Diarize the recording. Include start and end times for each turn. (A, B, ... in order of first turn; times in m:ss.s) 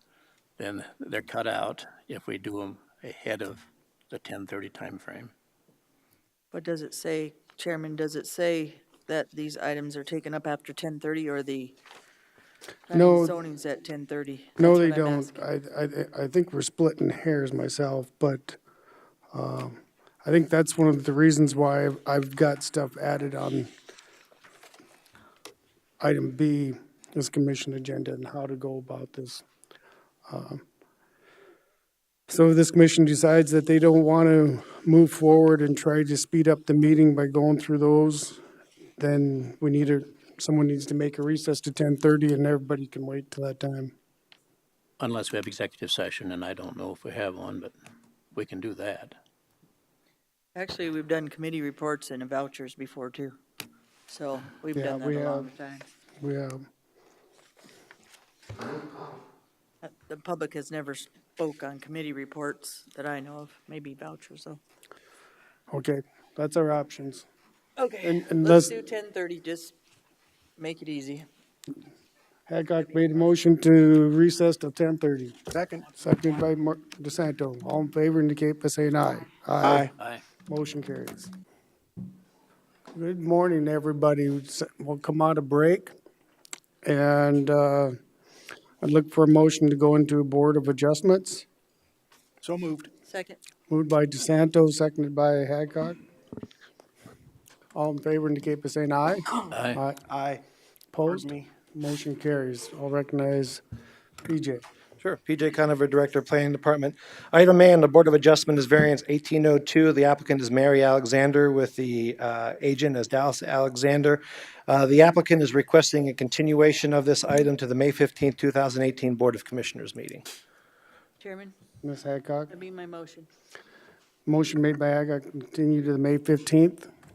0:00.6-0:05.3 A
0:06.5-0:11.8 B
0:12.9-0:15.4 B
0:12.9-0:13.4 C
0:14.6-0:18.6 C
0:19.3-0:23.7 C
0:26.0-0:29.4 C
0:30.3-0:30.6 C
0:32.3-0:38.4 C
0:39.0-0:43.9 C
0:45.0-0:47.7 A
0:48.3-0:49.1 A
0:50.5-0:53.4 B
0:54.1-0:55.8 B
0:54.7-0:55.5 C
0:56.2-0:56.6 C
0:59.8-1:04.6 B
1:05.7-1:07.3 C
1:07.8-1:09.7 B
1:08.0-1:08.7 C
1:10.6-1:11.3 B
1:12.5-1:15.4 C
1:15.5-1:15.9 D
1:16.0-1:19.9 C
1:19.6-1:19.9 D
1:20.0-1:20.2 A
1:20.5-1:21.3 C
1:22.9-1:25.9 C
1:26.8-1:28.0 C
1:28.8-1:31.4 C
1:32.4-1:32.9 D
1:33.0-1:33.4 B
1:33.7-1:36.0 C
1:37.7-1:40.0 C
1:39.5-1:39.8 A
1:40.1-1:40.4 D
1:40.9-1:43.6 C
1:41.0-1:41.5 D
1:44.2-1:44.6 C
1:45.0-2:00.2 E
2:01.2-2:01.5 B
2:01.8-2:02.6 C
2:02.5-2:03.3 B
2:04.2-2:06.9 C